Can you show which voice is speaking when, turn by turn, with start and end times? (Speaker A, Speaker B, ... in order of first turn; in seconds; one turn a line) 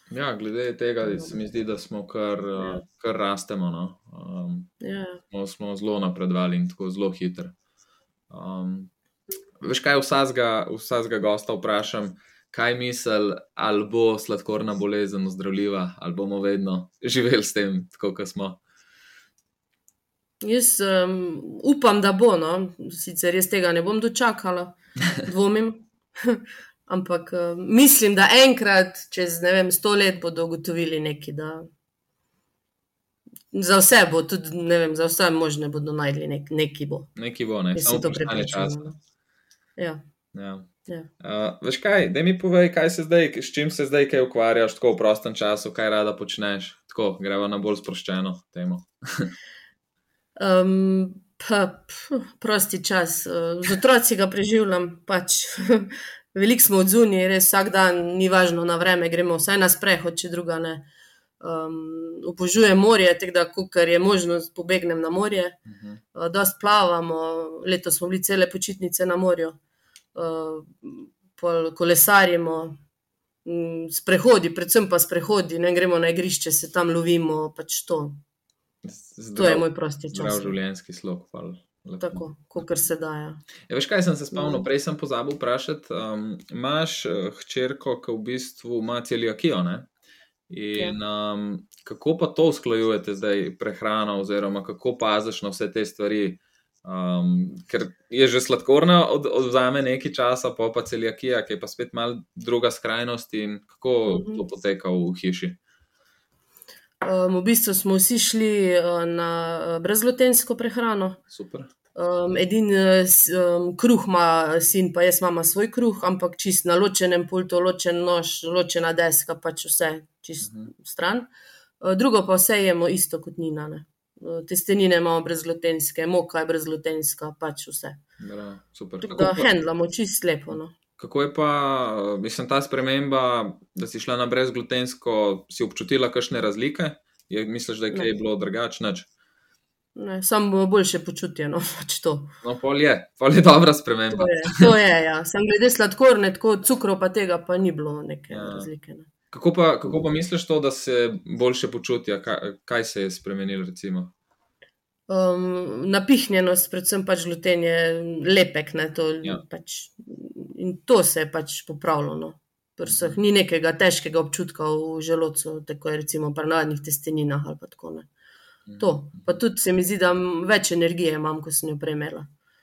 Speaker A: 0.1-4.7
Speaker B: 1.0-1.3
Speaker B: 2.6-2.8
Speaker B: 4.8-5.2
Speaker A: 5.3-7.5
Speaker A: 8.3-8.9
Speaker A: 9.6-18.6
Speaker B: 20.4-31.7
Speaker B: 33.5-37.1
Speaker A: 37.1-38.9
Speaker B: 37.7-39.0
Speaker A: 40.3-40.7
Speaker A: 41.2-49.3
Speaker B: 50.4-60.9
Speaker B: 61.4-65.6
Speaker A: 65.7-66.0
Speaker B: 66.1-69.6
Speaker B: 70.1-72.8
Speaker B: 73.4-78.2
Speaker A: 78.8-82.2
Speaker B: 79.3-80.5
Speaker B: 82.0-83.4
Speaker A: 83.7-89.9
Speaker B: 84.3-84.7
Speaker A: 90.5-105.6
Speaker B: 104.0-104.4
Speaker B: 107.0-111.2
Speaker A: 111.3-111.7
Speaker B: 111.9-121.3
Speaker A: 120.4-120.7
Speaker B: 121.8-128.0
Speaker A: 128.2-129.5
Speaker B: 129.0-130.7
Speaker A: 131.0-139.1
Speaker B: 139.9-142.3
Speaker A: 142.4-144.7
Speaker B: 144.1-149.1
Speaker A: 148.3-148.7
Speaker A: 149.3-154.1
Speaker B: 155.1-168.1
Speaker A: 162.8-163.2
Speaker A: 168.7-169.4
Speaker B: 168.8-172.3